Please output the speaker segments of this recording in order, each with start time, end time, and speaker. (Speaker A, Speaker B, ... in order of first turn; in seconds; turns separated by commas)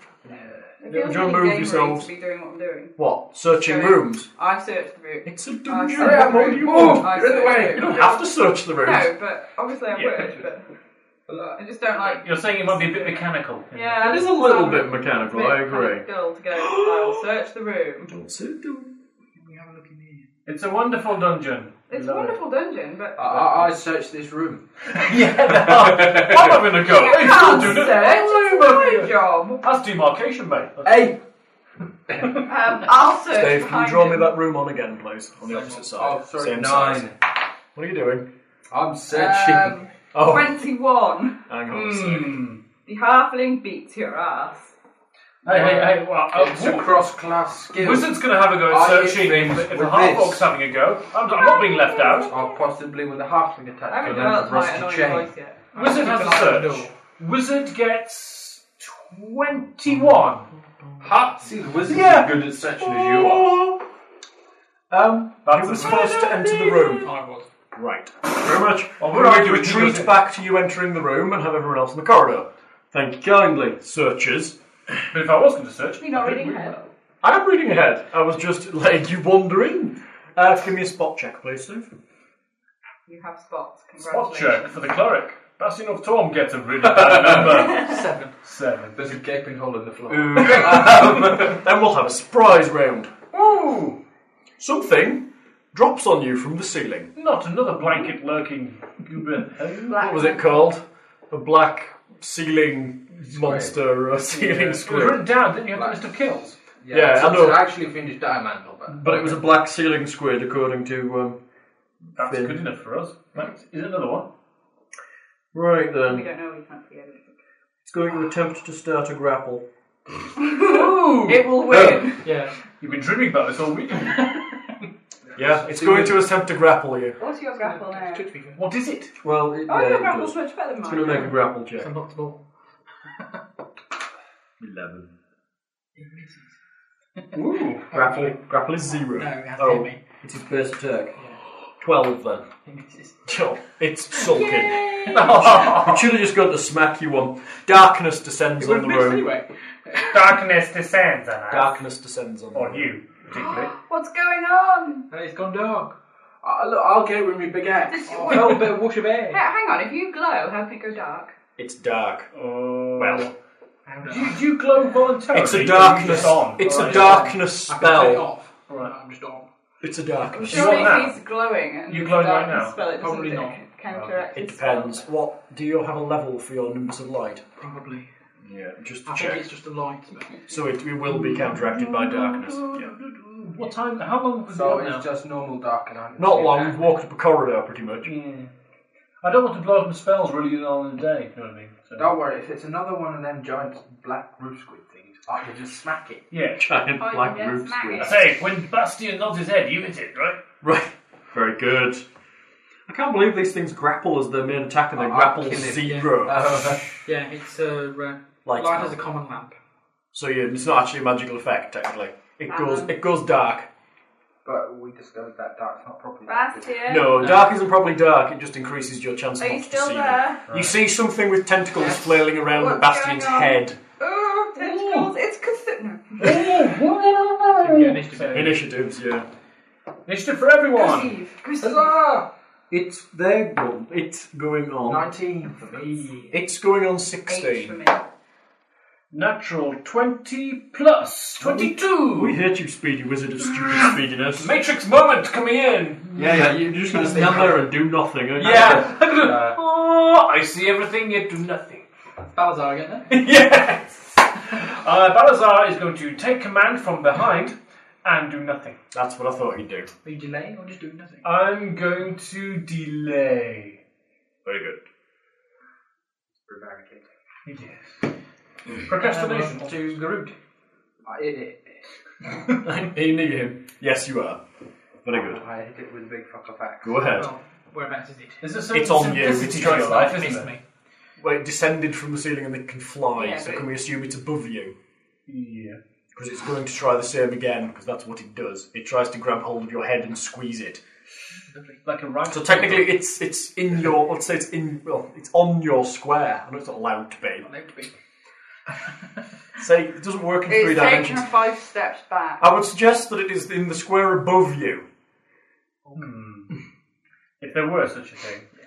Speaker A: 0.2-0.7, Speaker B: 0.8-3.0, Speaker C: 0.9-2.1, Speaker C: 3.0-4.3, Speaker B: 3.5-10.7, Speaker C: 5.2-9.1, Speaker A: 6.0-8.0, Speaker D: 9.9-10.4, Speaker A: 11.3-11.6, Speaker B: 11.5-12.3, Speaker D: 12.1-14.2, Speaker B: 13.7-18.1, Speaker C: 14.0-17.2, Speaker C: 18.1-18.9, Speaker E: 19.4-20.3, Speaker D: 20.5-22.4, Speaker B: 21.9-23.7, Speaker A: 23.2-26.6, Speaker D: 24.9-31.2, Speaker B: 26.9-29.6, Speaker A: 30.8-31.2, Speaker A: 32.1-32.5, Speaker B: 32.4-34.4, Speaker C: 33.3-37.1, Speaker E: 35.5-35.8, Speaker A: 35.9-37.1, Speaker C: 37.8-38.3, Speaker A: 38.7-39.8, Speaker B: 39.1-42.3, Speaker C: 40.1-40.6, Speaker C: 41.5-42.4, Speaker D: 42.0-42.6, Speaker B: 42.8-44.8, Speaker A: 45.4-50.5, Speaker D: 45.5-47.0, Speaker D: 47.7-52.4, Speaker B: 51.6-52.3, Speaker A: 52.3-55.3, Speaker B: 53.9-55.6, Speaker E: 55.7-56.9, Speaker D: 55.7-60.5, Speaker C: 60.5-61.1, Speaker A: 61.0-63.5, Speaker C: 61.9-63.8, Speaker C: 64.9-67.1, Speaker D: 65.5-67.1, Speaker E: 67.0-67.5, Speaker C: 67.7-74.6, Speaker D: 69.0-70.2, Speaker D: 75.1-76.8, Speaker B: 76.0-76.9, Speaker C: 77.2-81.9, Speaker B: 83.1-84.8, Speaker D: 84.0-89.1, Speaker A: 86.9-87.7, Speaker E: 87.5-88.3, Speaker A: 89.0-91.6, Speaker C: 90.1-93.1, Speaker D: 93.3-94.0, Speaker C: 94.6-97.1, Speaker D: 97.2-100.0, Speaker B: 99.9-100.7, Speaker C: 99.9-105.3, Speaker A: 103.3-103.8, Speaker D: 104.3-106.6, Speaker A: 105.7-106.0, Speaker A: 106.8-109.4, Speaker C: 106.9-107.7, Speaker C: 108.9-111.4, Speaker C: 112.1-112.6, Speaker D: 112.2-114.3, Speaker C: 115.5-116.3, Speaker B: 116.0-117.4, Speaker C: 117.8-119.7, Speaker B: 120.4-122.2, Speaker D: 120.6-122.0, Speaker C: 121.7-122.0, Speaker E: 122.2-122.5, Speaker D: 122.8-124.6, Speaker C: 125.3-127.2, Speaker A: 125.7-126.2, Speaker B: 127.2-128.3, Speaker E: 127.5-128.6, Speaker D: 128.6-129.1, Speaker C: 129.2-131.9, Speaker B: 129.7-131.3, Speaker E: 131.8-132.4, Speaker C: 134.6-135.1, Speaker E: 136.0-136.5, Speaker D: 137.3-137.9, Speaker E: 137.9-138.3, Speaker C: 137.9-141.2, Speaker E: 139.2-140.0, Speaker C: 141.8-142.5, Speaker E: 142.7-143.3, Speaker C: 143.3-149.3, Speaker E: 144.3-145.5, Speaker B: 144.4-144.9, Speaker D: 145.1-146.1, Speaker E: 148.6-150.3, Speaker D: 150.0-151.8, Speaker C: 151.5-152.9, Speaker D: 152.5-153.7, Speaker B: 153.3-155.1, Speaker E: 155.1-155.9, Speaker A: 156.4-158.6, Speaker B: 157.9-161.3, Speaker E: 158.1-159.4, Speaker C: 161.6-162.3, Speaker D: 162.3-163.3, Speaker C: 163.0-163.3, Speaker E: 163.9-164.4, Speaker D: 164.1-167.3, Speaker C: 165.3-168.3, Speaker E: 165.8-169.5, Speaker C: 169.8-171.0, Speaker B: 170.3-175.1, Speaker D: 170.4-171.2, Speaker D: 171.9-172.8, Speaker E: 172.9-173.6, Speaker D: 173.9-174.3, Speaker C: 174.3-177.5, Speaker E: 177.6-178.1, Speaker C: 178.4-179.4, Speaker E: 179.1-180.5, Speaker C: 180.5-182.9, Speaker D: 181.2-185.1, Speaker A: 184.5-186.8, Speaker C: 186.2-188.1, Speaker D: 188.0-188.5, Speaker D: 189.2-192.1, Speaker A: 192.0-196.2, Speaker D: 196.3-196.7, Speaker C: 196.6-198.1, Speaker B: 196.9-198.2, Speaker D: 198.0-200.4, Speaker C: 200.6-202.1, Speaker C: 202.9-206.9, Speaker A: 204.9-207.0, Speaker E: 205.8-206.1, Speaker E: 207.1-209.6, Speaker C: 208.4-209.0, Speaker C: 210.1-213.7, Speaker B: 212.5-213.0, Speaker A: 214.4-216.9, Speaker B: 216.3-217.3, Speaker C: 216.9-223.8, Speaker B: 219.4-220.4, Speaker D: 220.5-220.8, Speaker B: 221.8-226.4, Speaker D: 224.6-225.1, Speaker D: 226.2-228.5, Speaker E: 227.5-228.6, Speaker C: 228.3-229.3, Speaker D: 230.1-231.2, Speaker B: 230.7-232.0, Speaker A: 231.6-232.3, Speaker C: 232.7-235.1, Speaker A: 234.8-236.2, Speaker E: 235.7-236.3, Speaker C: 236.3-237.8, Speaker B: 237.3-238.0, Speaker D: 239.1-242.4, Speaker C: 241.4-244.5, Speaker D: 243.4-247.5, Speaker C: 246.2-248.9, Speaker A: 248.4-249.6, Speaker D: 248.4-251.9, Speaker E: 252.2-253.2, Speaker D: 253.1-258.8, Speaker C: 258.9-259.9, Speaker E: 260.0-261.3, Speaker D: 261.2-263.8, Speaker C: 264.4-264.8, Speaker A: 266.5-267.1, Speaker D: 267.5-268.0, Speaker D: 268.8-270.2, Speaker E: 268.9-270.3, Speaker A: 271.1-271.8, Speaker C: 272.6-274.4, Speaker C: 275.0-275.4, Speaker A: 275.1-277.1, Speaker C: 276.8-277.3, Speaker E: 277.1-278.5, Speaker D: 278.4-280.5, Speaker C: 278.7-280.1, Speaker E: 279.1-280.6, Speaker C: 281.2-284.8, Speaker B: 283.2-283.7, Speaker D: 285.3-285.8, Speaker C: 286.1-290.8, Speaker E: 291.5-291.8, Speaker D: 291.9-293.0, Speaker C: 292.3-297.5, Speaker E: 297.4-297.9, Speaker C: 299.6-301.2, Speaker B: 300.5-302.4, Speaker C: 302.4-304.9, Speaker D: 305.9-306.5, Speaker D: 307.4-308.5